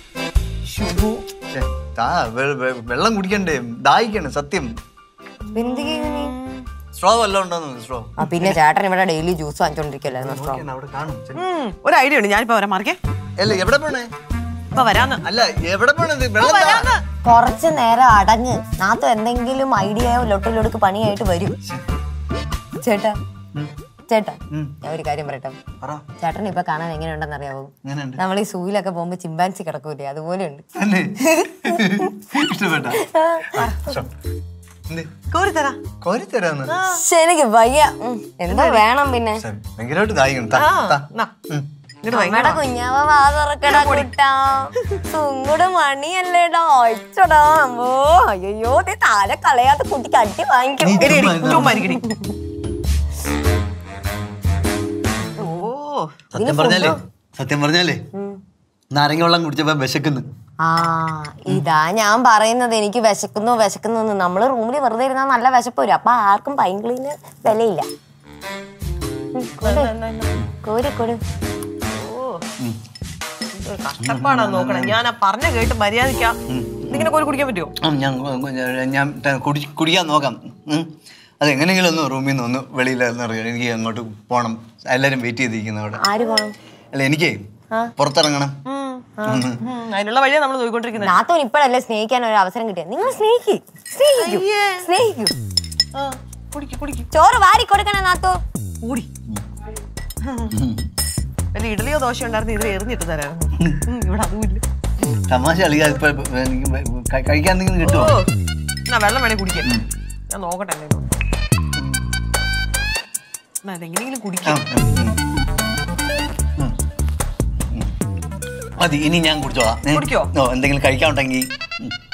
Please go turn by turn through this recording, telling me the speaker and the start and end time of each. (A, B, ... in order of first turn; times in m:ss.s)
0:00.7-0:01.2 A
0:01.5-0:04.7 B
0:05.6-0:06.3 C
0:05.6-0:06.6 A
0:07.0-0:08.6 B
0:08.2-0:10.6 C
0:10.2-0:11.4 B
0:11.4-0:13.0 A
0:13.4-0:14.1 B
0:14.7-0:15.2 A
0:15.2-0:16.9 B
0:16.4-0:17.0 A
0:17.2-0:21.6 C
0:22.8-0:23.2 C
0:24.1-0:25.6 C
0:26.2-0:30.6 C
0:27.8-0:28.2 B
0:30.8-0:33.0 B
0:33.0-0:33.7 C
0:33.5-0:34.1 B
0:35.3-0:35.8 A
0:36.0-0:36.8 B
0:36.7-0:37.0 A
0:36.9-0:39.4 C
0:38.5-0:38.8 A
0:39.4-0:41.7 B
0:40.6-0:41.0 C
0:41.0-0:41.3 A
0:42.0-0:42.6 A
0:42.1-0:52.3 C
0:43.7-0:44.1 A
0:50.8-0:51.8 B
0:51.0-0:52.0 A
0:55.4-0:56.1 A
0:56.3-0:58.0 B
0:56.4-0:57.0 C
0:58.1-0:58.4 C
0:58.9-1:00.3 B
1:00.6-1:07.9 C
1:09.3-1:09.9 C
1:09.6-1:10.4 A
1:10.6-1:11.2 C
1:11.9-1:12.4 A
1:13.6-1:16.4 A
1:14.0-1:15.0 B
1:16.5-1:17.1 B
1:16.9-1:17.7 A
1:17.8-1:20.9 B
1:21.4-1:26.0 B
1:26.0-1:26.5 C
1:26.9-1:27.4 B
1:28.0-1:28.5 B
1:28.7-1:31.2 A
1:29.2-1:29.4 C
1:29.3-1:29.6 B
1:31.0-1:35.4 C
1:34.2-1:34.9 A
1:36.0-1:37.1 A
1:37.1-1:38.4 C
1:38.8-1:39.1 A
1:40.2-1:40.5 A
1:40.5-1:40.9 B
1:41.5-1:44.6 A
1:45.3-1:48.2 B
1:47.8-1:48.3 A
1:48.9-1:49.8 A
1:50.3-1:51.0 A
1:53.6-1:54.6 A
1:54.5-1:55.2 B
1:58.8-2:01.9 B
1:59.9-2:00.3 A